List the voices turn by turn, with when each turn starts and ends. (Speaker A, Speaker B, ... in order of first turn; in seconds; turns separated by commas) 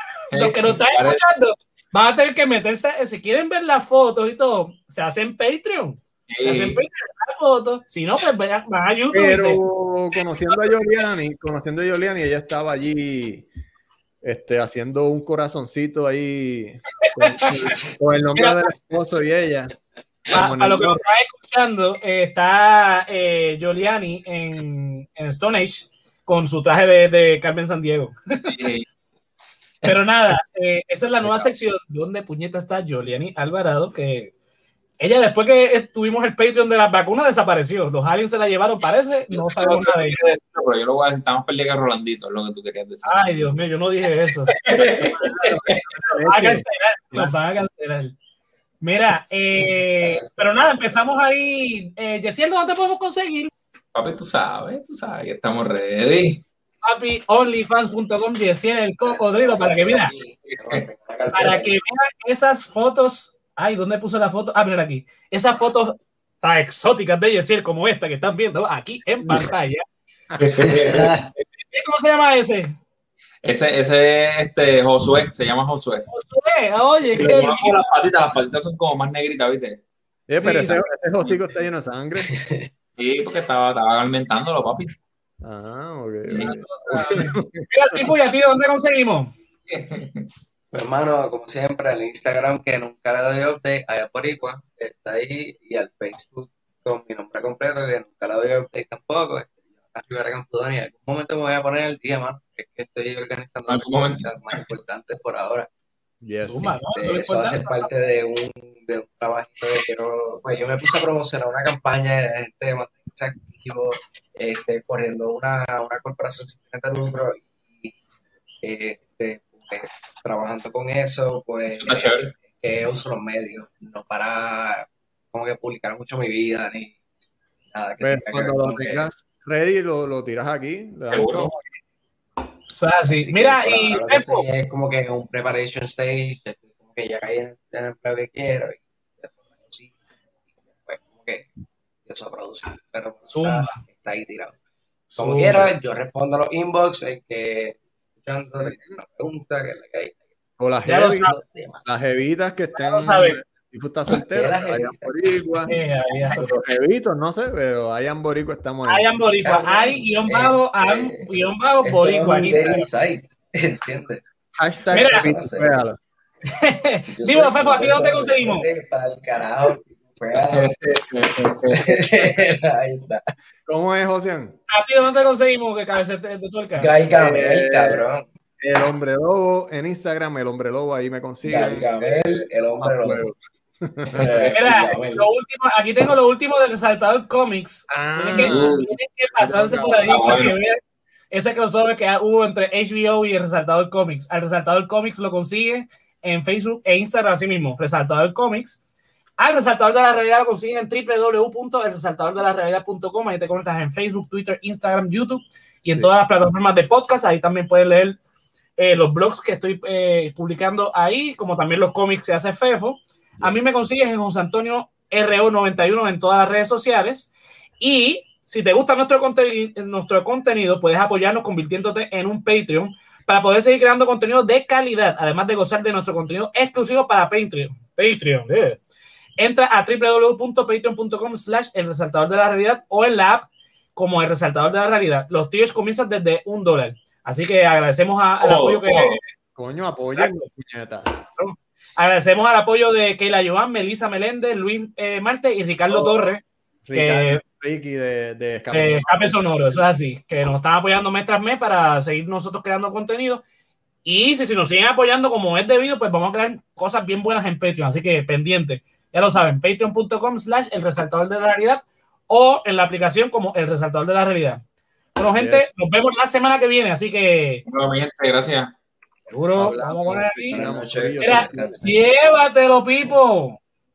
Speaker A: 0.3-9.6, Speaker B: 0.3-1.2, Speaker B: 6.3-6.8, Speaker C: 9.1-13.5, Speaker C: 14.2-19.7, Speaker C: 20.3-21.0, Speaker A: 20.3-28.6, Speaker B: 28.5-28.9, Speaker A: 29.9-34.3, Speaker A: 35.0-40.2, Speaker B: 39.3-43.4, Speaker A: 43.0-44.6, Speaker B: 44.5-45.8, Speaker D: 44.8-45.3, Speaker C: 45.2-47.3, Speaker A: 45.2-48.1, Speaker A: 48.8-53.5, Speaker D: 50.0-50.5, Speaker B: 53.9-56.4, Speaker A: 56.8-60.1, Speaker D: 59.0-61.7, Speaker A: 61.3-69.8, Speaker B: 70.4-71.4, Speaker D: 70.6-71.3, Speaker A: 71.6-72.8, Speaker B: 73.4-76.1, Speaker A: 76.1-77.8, Speaker B: 77.2-79.8, Speaker C: 80.3-82.3, Speaker A: 80.3-80.8, Speaker B: 80.6-81.4, Speaker D: 82.3-82.7, Speaker B: 83.0-85.0, Speaker C: 85.4-88.1, Speaker B: 86.3-87.3, Speaker A: 86.4-89.3, Speaker B: 89.7-90.3, Speaker D: 90.7-105.7, Speaker B: 103.7-104.6, Speaker C: 106.2-106.8, Speaker A: 106.5-107.9, Speaker D: 107.0-117.9, Speaker D: 118.6-127.0, Speaker B: 121.8-122.3, Speaker D: 127.7-129.1, Speaker C: 128.0-131.8, Speaker B: 131.1-131.5, Speaker A: 132.7-134.5, Speaker D: 133.1-139.9, Speaker D: 140.8-141.5, Speaker D: 142.1-144.6, Speaker A: 143.3-143.8, Speaker A: 145.1-145.7, Speaker D: 145.2-150.2, Speaker C: 148.7-148.9, Speaker C: 150.6-155.7, Speaker A: 150.8-151.4, Speaker D: 151.3-152.0, Speaker A: 152.8-153.4, Speaker D: 154.2-155.1, Speaker A: 155.7-156.5, Speaker C: 156.3-159.1, Speaker A: 158.9-162.9, Speaker D: 159.4-161.3, Speaker D: 161.8-164.2, Speaker C: 164.6-166.0, Speaker D: 164.9-165.8, Speaker A: 164.9-165.3, Speaker A: 166.5-168.7, Speaker D: 167.1-170.7, Speaker B: 170.3-172.0, Speaker D: 171.7-173.2, Speaker C: 173.7-174.6, Speaker A: 174.7-176.9, Speaker D: 176.8-178.3, Speaker C: 177.1-178.0, Speaker C: 178.6-184.5, Speaker D: 181.4-183.3, Speaker D: 184.2-185.3, Speaker B: 184.2-184.4, Speaker A: 184.5-190.8, Speaker C: 187.9-190.4, Speaker B: 188.3-188.9, Speaker B: 190.1-190.6, Speaker A: 191.3-198.8, Speaker A: 199.4-208.2, Speaker A: 208.8-228.8, Speaker A: 229.4-239.3, Speaker B: 238.4-239.2, Speaker C: 239.6-241.1, Speaker A: 240.1-240.5, Speaker A: 241.4-247.4, Speaker C: 245.9-246.3, Speaker C: 246.9-249.8, Speaker A: 248.7-253.4, Speaker A: 254.0-264.6, Speaker A: 265.1-267.6, Speaker C: 265.3-265.7, Speaker B: 267.7-268.7, Speaker A: 269.3-270.6, Speaker C: 269.6-271.8, Speaker D: 270.5-272.1, Speaker A: 271.2-273.6